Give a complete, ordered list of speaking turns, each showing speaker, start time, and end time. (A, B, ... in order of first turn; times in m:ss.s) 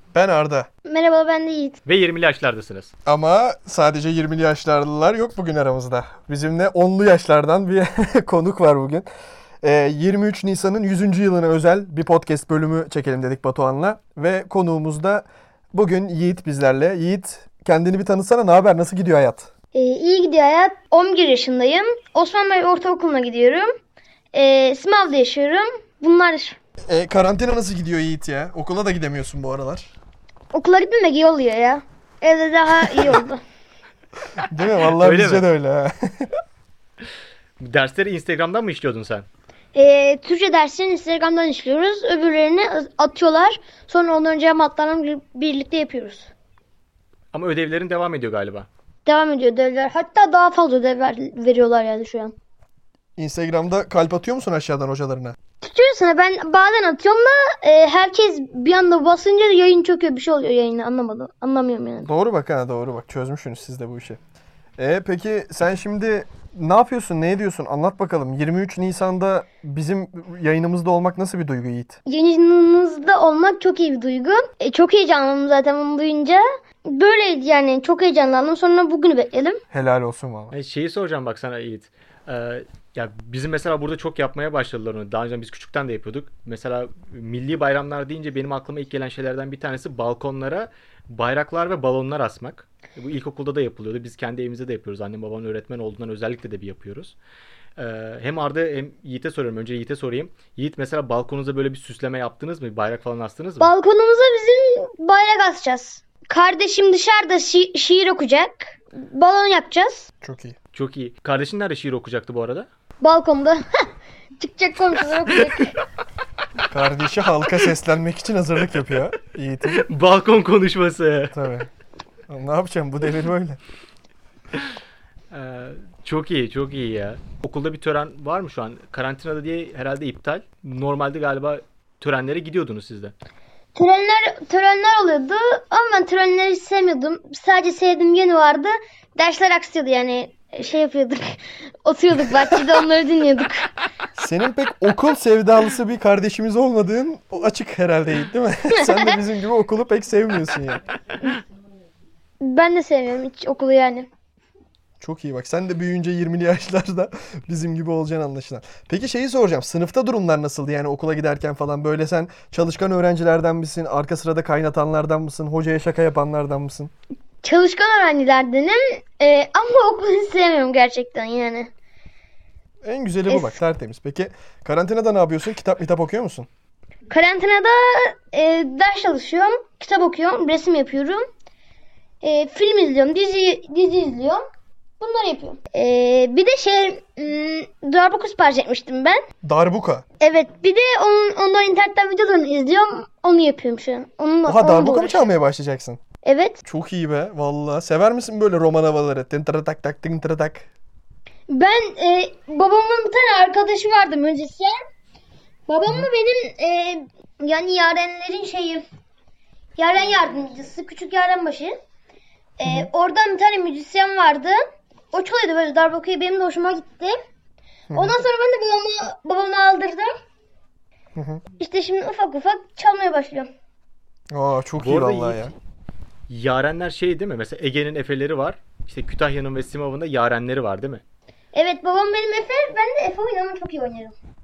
0:00.1-0:00.7 A
0:00.8-0:01.8 B
0:01.8-0:02.9 C
0:03.0-0:09.0 A
0:09.6-0:19.5 A
0:19.7-0:23.7 B
0:24.3-0:26.6 B
0:26.9-0:29.9 A
0:30.5-0:33.4 B
0:34.5-0:36.3 A
0:34.9-0:35.4 C
0:37.6-0:39.2 C
0:39.7-0:46.3 B
0:47.3-0:48.7 C
0:49.0-0:52.3 B
0:53.2-0:55.4 A
0:55.6-1:02.1 B
1:02.0-1:04.2 A
1:04.8-1:12.0 A
1:12.0-1:19.6 B
1:19.7-1:20.5 A
1:20.5-1:37.1 C
1:37.8-1:43.7 C
1:43.6-1:50.1 B
1:50.2-1:50.6 A
1:50.7-1:52.7 C
1:53.0-1:53.9 B
1:54.4-1:55.7 B
1:56.6-1:59.8 A
1:59.7-2:01.4 C
2:01.3-2:01.7 A
2:02.3-2:03.6 A
2:05.3-2:13.1 C
2:13.7-2:23.7 B
2:24.2-2:30.8 A
2:28.8-2:29.1 B
2:32.4-2:34.1 B
2:35.0-2:46.9 A
2:47.4-2:51.7 B
2:52.8-2:56.5 A
2:53.3-2:53.6 B
2:57.1-3:01.2 B
3:02.2-3:04.4 B
3:05.0-3:09.2 B
3:09.4-3:10.0 A
3:10.2-3:15.2 B
3:14.4-3:16.0 A
3:16.2-3:16.6 B
3:16.6-3:20.7 A
3:21.5-3:24.8 B
3:25.7-3:28.8 B
3:29.8-3:31.8 B
3:32.6-3:34.6 B
3:35.1-3:37.2 B
3:37.9-3:38.2 A
3:37.9-3:40.1 B
3:41.1-3:41.4 A
3:41.6-3:43.5 B
3:44.3-3:45.5 A
3:44.8-3:45.5 C
3:46.3-3:51.0 C
3:51.5-3:54.2 B